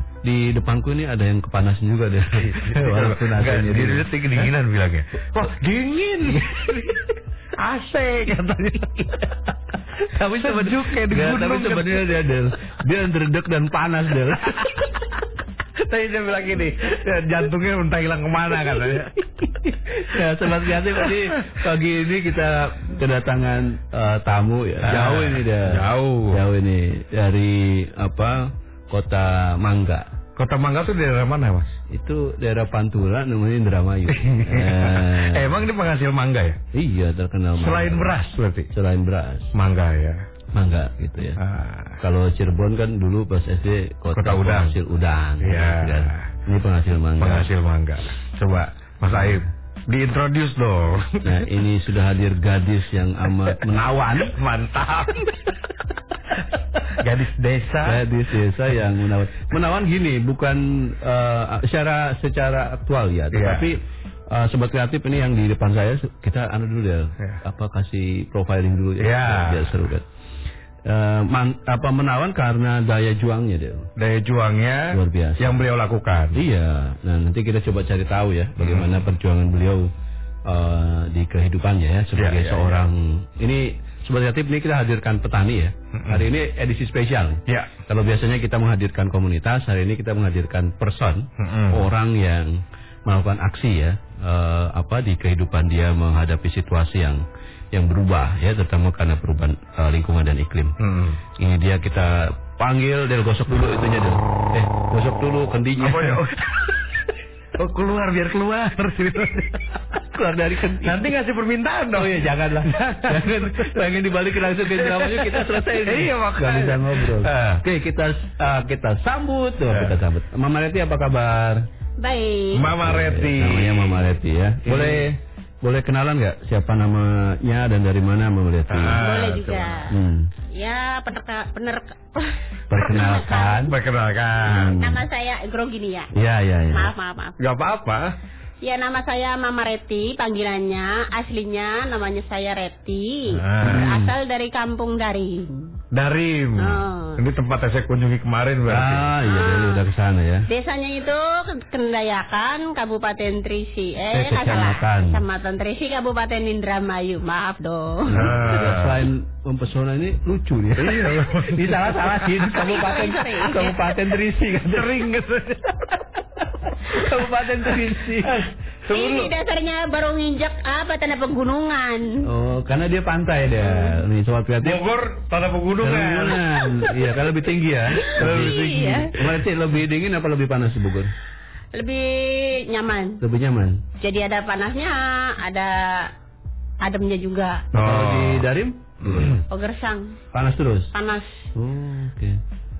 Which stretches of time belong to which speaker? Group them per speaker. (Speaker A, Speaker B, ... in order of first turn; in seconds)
Speaker A: 0.2-4.5, 10.0-14.9, 18.6-30.0, 31.9-35.6, 36.7-38.1, 38.7-39.5, 40.5-41.4, 42.0-47.5, 49.1-49.5, 51.2-54.4, 57.8-70.0, 70.8-73.9, 74.9-75.6, 76.3-79.9, 80.5-100.8, 101.3-106.3, 109.9-111.0, 111.9-121.6, 122.8-129.0, 129.9-130.3, 132.7-133.7, 134.4-135.0, 136.1-136.9, 143.6-144.1, 148.7-150.4, 154.1-155.2, 158.1-165.1, 165.9-168.4, 172.2-174.8, 175.8-181.1, 183.2-183.8, 187.7-189.4, 190.3-190.9, 191.5-192.4
Speaker B: 2.4-7.0, 7.5-9.3, 10.4-12.2, 14.4-14.8, 15.8-19.2, 21.0-21.6, 24.8-26.4, 30.4-31.8, 34.1-36.6, 37.6-38.7, 39.5-40.2, 41.4-42.0, 44.1-44.8, 45.4-46.3, 47.2-51.5, 54.2-55.4, 57.0-58.0, 63.3-63.7, 69.0-69.8, 74.0-76.4, 78.6-79.0, 82.1-82.8, 85.9-86.3, 87.5-87.7, 91.4-91.9, 100.8-101.2, 105.8-106.7, 107.6-109.6, 110.8-113.8, 114.6-117.6, 119.7-120.0, 122.5-124.1, 124.6-125.1, 128.7-129.9, 133.7-134.8, 137.4-138.1, 143.4-143.9, 145.9-149.1, 158.1-159.1, 160.8-162.7, 164.7-165.9, 168.2-169.3, 174.6-176.4, 178.2-178.9, 187.7-188.4, 189.0-189.4
Speaker C: 122.0-122.7, 128.9-129.9, 130.5-133.7, 134.8-136.1, 136.7-137.4, 138.6-145.7, 146.6-147.2, 149.2-149.8, 150.5-158.4, 162.6-163.8, 168.9-172.2, 173.6-174.0, 178.1-179.2, 181.7-183.2, 184.0-186.1, 186.8-187.6, 189.5-190.2, 190.9-191.5